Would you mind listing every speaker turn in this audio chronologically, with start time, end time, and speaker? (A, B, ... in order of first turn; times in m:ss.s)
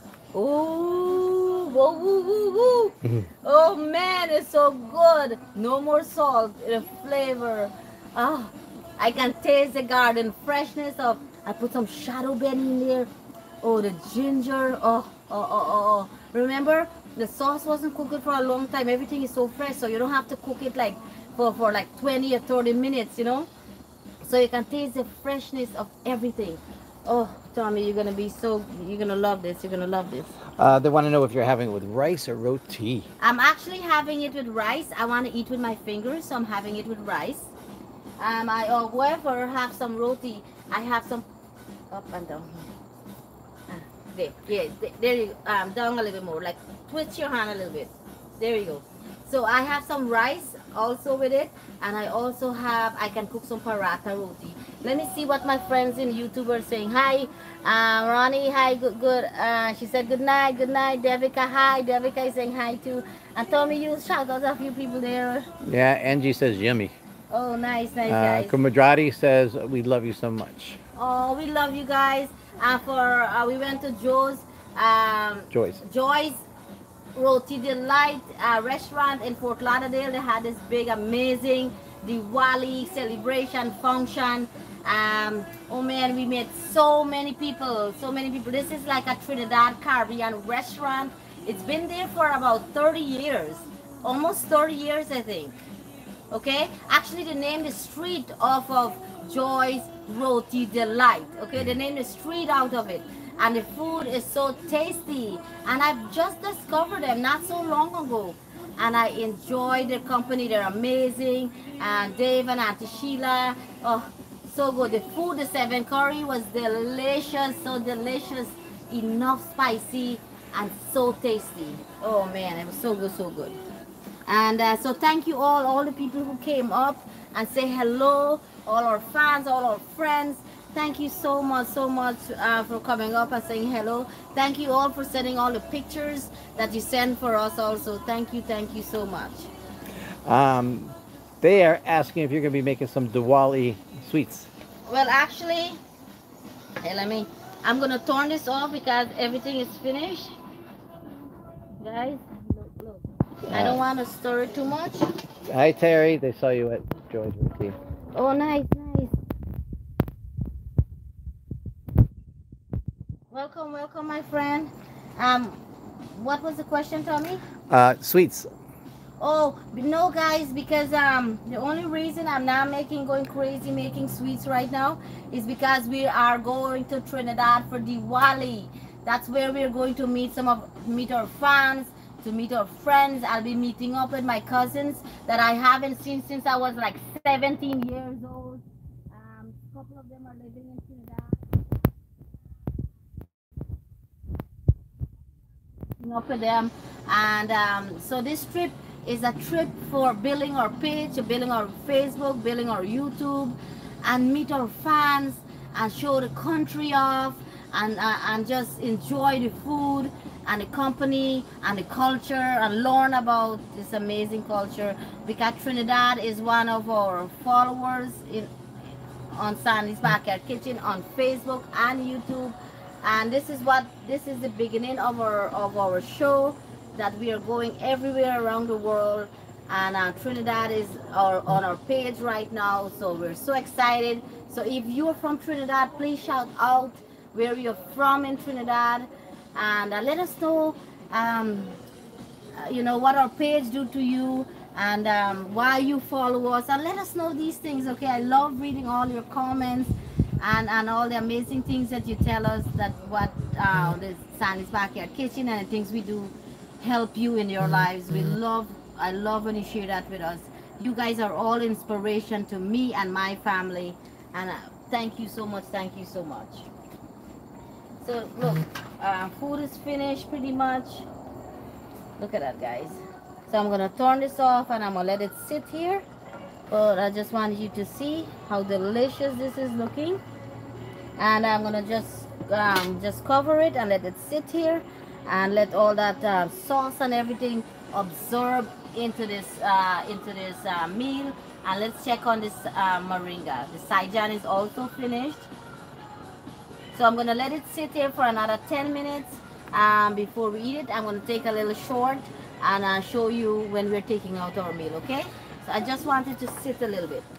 0:00.3-0:13.1 A
0:13.6-0:23.5 A
0:24.2-0:30.4 A
0:30.6-0:33.1 B
0:33.2-0:37.5 A
0:38.2-0:41.2 A
0:41.9-0:42.7 A
0:43.7-1:05.5 A
1:05.6-1:06.9 B
1:07.3-1:08.6 A
1:08.1-1:10.8 B
1:11.0-1:16.4 A
1:15.5-1:15.8 B
1:17.1-1:35.6 A
1:36.3-2:03.6 A
2:04.3-2:19.5 A
2:20.2-2:24.5 B
2:24.9-2:25.8 A
2:26.8-2:30.4 A
2:31.8-2:35.1 A
2:33.5-2:33.8 B
2:35.5-2:37.7 B
2:38.1-2:39.2 A
2:43.3-2:45.6 A
2:46.1-2:47.4 A
2:47.7-2:48.5 B
2:49.2-3:11.4 A
3:16.0-3:38.5 A
3:39.3-4:01.8 A
4:02.5-4:26.7 A
4:28.0-4:31.1 A
4:32.2-4:36.0 A
4:36.7-4:40.2 A
4:41.2-4:55.5 A
4:56.9-5:07.3 A